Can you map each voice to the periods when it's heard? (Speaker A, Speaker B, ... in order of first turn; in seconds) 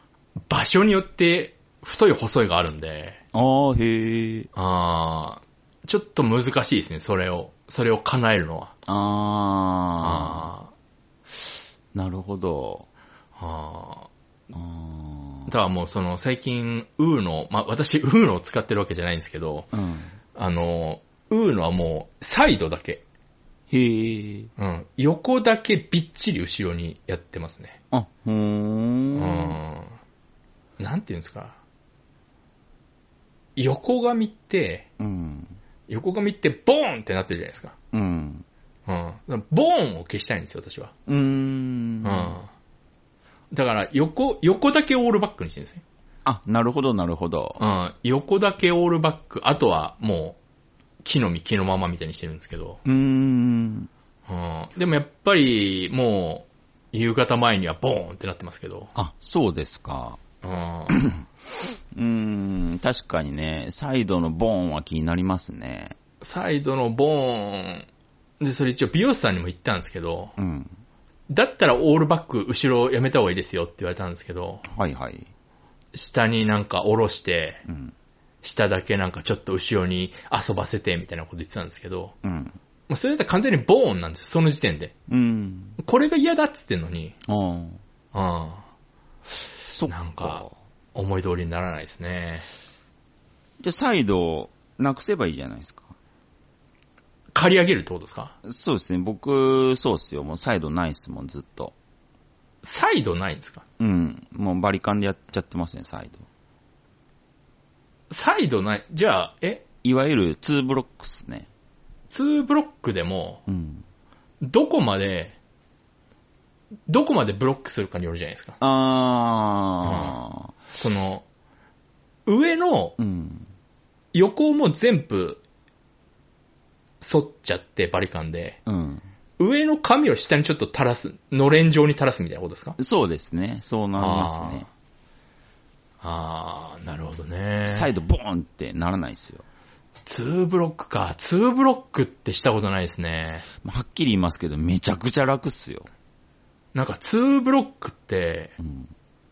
Speaker A: 0.5-3.2, 4.5-8.7, 10.0-10.7, 13.4-14.1, 15.5-19.7, 20.4-23.0, 24.6-27.8, 29.1-30.0, 30.8-31.6, 33.6-34.9, 35.9-37.8, 38.9-40.9, 42.0-42.5, 43.5-45.8, 47.6-50.4, 51.0-52.8, 54.3-58.9, 60.4-61.0, 66.2-67.9, 68.4-70.3, 71.3-74.6, 75.9-77.6, 78.4-82.2, 82.9-84.9, 85.8-87.2, 88.1-88.7, 89.9-92.5, 97.3-98.3, 102.6-103.6, 108.1-109.6, 112.1-113.4, 114.4-115.4, 116.9-118.6, 119.8-120.2, 120.8-121.2, 122.3-123.0, 124.1-125.4, 127.0-128.6, 129.4-132.8, 134.0-134.7, 136.0-137.9, 140.1-143.5, 146.7-148.5
Speaker B: 3.3-4.5, 8.9-10.5, 11.9-12.9, 14.5-15.5, 19.7-20.2, 23.7-24.5, 27.9-29.6, 35.0-35.6, 37.9-38.5, 41.1-42.4, 46.2-47.6, 52.9-53.9, 59.0-60.2, 60.9-61.3, 61.9-66.0, 70.4-70.8, 74.7-75.3, 77.7-77.9, 82.2-82.6, 85.1-85.8, 87.3-87.8, 89.7-90.5, 93.6-95.9, 98.4-101.8, 103.8-106.3, 109.8-111.5, 113.5-113.8, 118.6-120.5, 123.0-123.5, 128.7-129.1, 132.8-134.7, 137.7-139.4, 143.6-145.9, 148.6-148.9